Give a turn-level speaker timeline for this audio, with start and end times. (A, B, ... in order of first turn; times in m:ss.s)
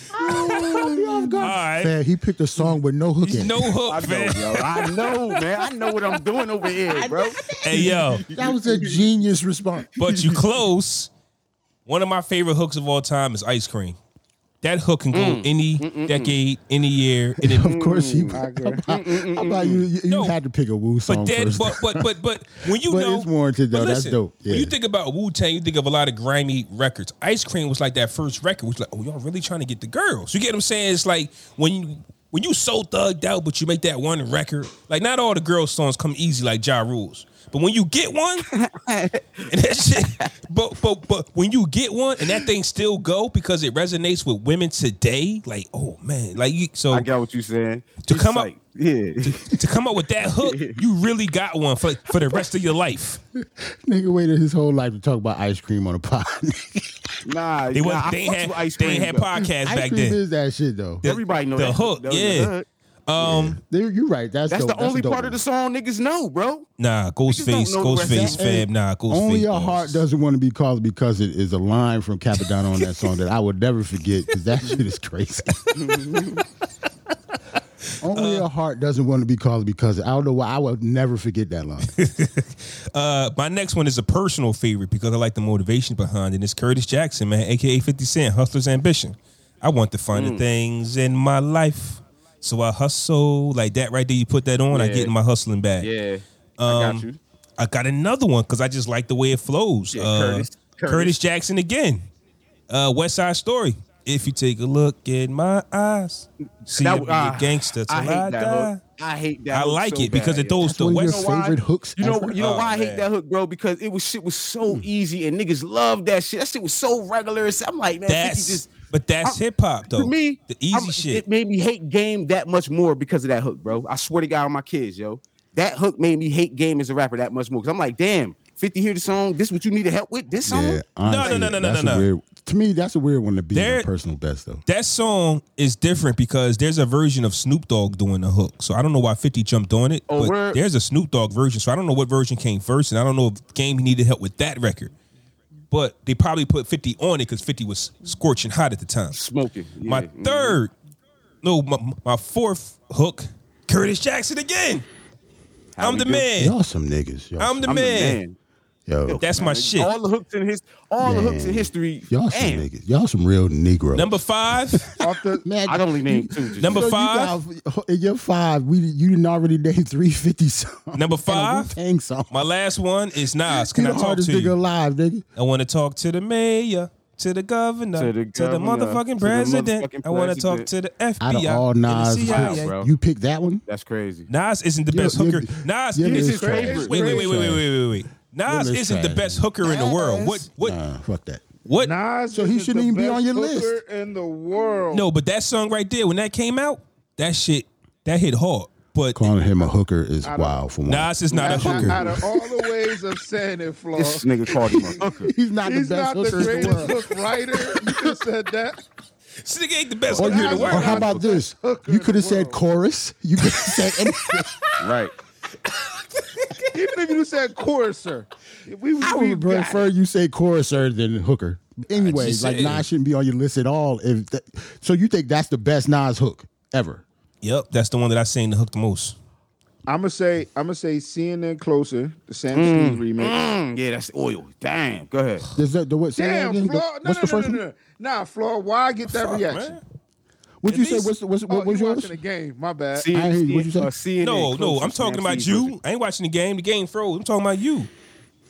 0:00.1-0:03.8 A
0:00.2-0:02.0 B
0:03.2-0:05.1 B
0:03.9-0:09.0 C
0:06.8-0:10.2 A
0:07.6-0:08.2 B
0:10.0-0:11.1 B
0:11.9-0:14.0 B
0:14.6-0:17.8 B
0:15.1-0:16.3 C
0:17.4-0:22.1 A
0:17.6-0:19.8 C
0:18.3-0:18.8 D
0:20.1-0:20.4 B
0:21.1-0:38.5 B
0:22.7-0:24.7 A
0:38.5-0:40.3 C
0:39.5-0:47.1 B
0:46.9-0:49.6 C
0:48.0-0:48.5 B
0:49.2-0:53.2 B
0:50.2-0:50.8 C
0:53.4-0:57.0 A
0:57.2-0:59.3 C
0:57.7-1:00.2 B
0:59.6-1:01.0 A
1:01.0-1:02.5 B
1:01.0-1:02.7 C
1:03.1-1:03.6 B
1:03.2-1:03.6 C
1:03.6-1:05.4 A
1:04.5-1:06.7 C
1:06.8-1:10.0 B
1:07.3-1:08.4 C
1:08.1-1:15.7 A
1:15.8-1:16.4 C
1:18.0-1:21.9 A
1:18.1-1:18.5 B
1:22.0-1:35.9 B
1:30.1-1:30.4 C
1:34.7-1:35.1 C
1:35.8-1:37.2 C
1:36.6-1:37.0 B
1:37.6-1:42.1 B
1:39.9-1:41.2 C
1:42.7-1:48.8 B
1:46.7-1:58.7 C
1:49.5-1:51.3 B
1:50.6-1:52.4 A
1:52.4-1:53.1 B
1:58.1-2:01.2 B
1:59.9-2:11.4 C
2:10.4-2:14.6 A
2:11.0-2:12.1 B
2:13.5-2:13.9 B
2:14.7-2:24.9 B
2:20.1-2:20.6 C
2:25.7-2:29.2 B
2:29.1-2:30.6 C
2:29.8-2:30.7 B
2:31.4-2:34.8 B
2:35.8-2:36.3 C
2:35.8-2:36.6 B
2:36.4-2:37.7 A
2:37.4-2:38.2 B
2:37.6-2:38.4 C
2:38.9-2:39.2 A
2:39.1-2:42.7 C
2:39.2-2:39.9 B
2:41.0-2:44.2 A
2:43.9-2:44.9 B
2:44.7-2:52.4 A
2:45.0-2:45.4 D
2:45.7-2:46.9 C
2:46.6-2:47.4 B
2:51.0-2:51.7 B
2:52.3-2:54.6 B
2:53.5-2:55.2 A
2:55.4-3:02.7 B
2:58.0-3:00.7 C
3:01.2-3:03.6 A
3:02.2-3:02.9 C
3:03.7-3:04.3 C
3:04.3-3:10.8 B
3:04.9-3:07.7 A
3:06.1-3:07.2 C
3:06.1-3:07.3 D
3:08.5-3:11.4 A
3:11.7-3:11.9 B
3:11.8-3:15.1 D
3:12.3-3:13.8 A
3:14.9-3:19.3 B
3:19.2-3:22.4 A
3:20.2-3:20.6 D
3:20.9-3:22.0 B
3:21.4-3:24.3 D
3:24.0-3:25.3 C
3:24.6-3:27.0 A
3:25.6-3:28.8 D
3:27.6-3:28.0 A
3:29.4-3:31.2 B
3:30.1-3:34.7 A
3:30.2-3:32.6 D
3:34.8-3:35.1 C
3:36.7-3:39.9 D
3:39.0-3:47.0 A
3:42.0-3:42.8 B
3:47.4-3:49.2 B
3:49.9-3:53.4 D
3:52.5-3:55.5 C
3:55.6-3:57.6 A
3:56.2-3:59.8 D
3:59.1-3:59.8 B
4:00.6-4:02.2 A
4:01.5-4:03.1 D
4:03.0-4:05.8 C
4:03.1-4:03.9 A
4:04.2-4:07.9 B